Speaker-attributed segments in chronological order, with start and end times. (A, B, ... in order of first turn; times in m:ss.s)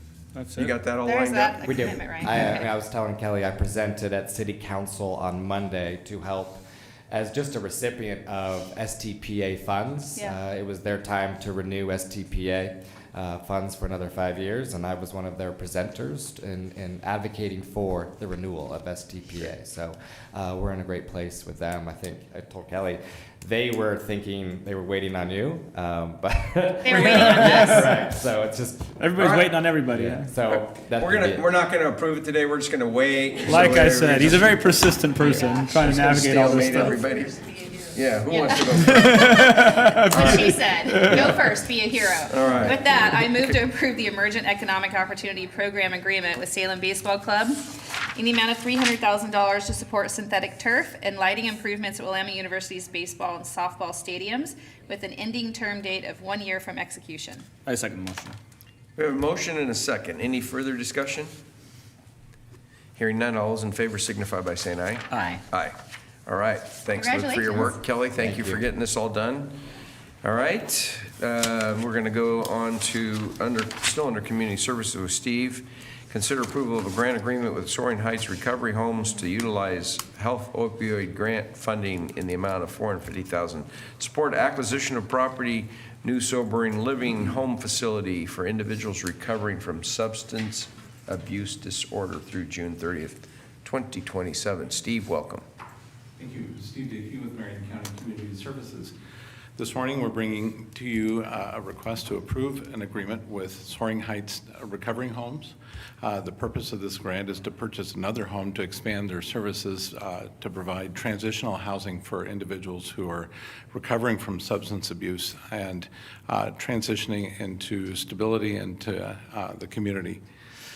0:00.3-0:00.8 A
0:00.5-0:01.7 B
0:01.0-0:02.7 C
0:01.6-0:29.0 D
0:26.8-0:27.9 C
0:27.3-0:27.9 A
0:29.0-0:30.3 A
0:29.1-0:29.6 B
0:29.9-0:31.4 D
0:30.5-0:37.3 B
0:33.4-0:37.0 A
0:35.2-0:35.8 C
0:36.7-0:57.5 C
0:37.9-0:39.4 B
0:38.8-0:41.3 A
0:40.1-0:41.4 B
0:42.3-0:43.0 B
0:57.6-0:58.4 A
0:59.0-1:01.3 B
1:03.0-1:09.6 B
1:05.1-1:05.4 A
1:05.1-1:05.4 C
1:06.9-1:07.8 C
1:08.2-1:08.6 D
1:10.2-1:35.4 B
1:36.2-1:38.9 E
1:39.6-2:00.2 E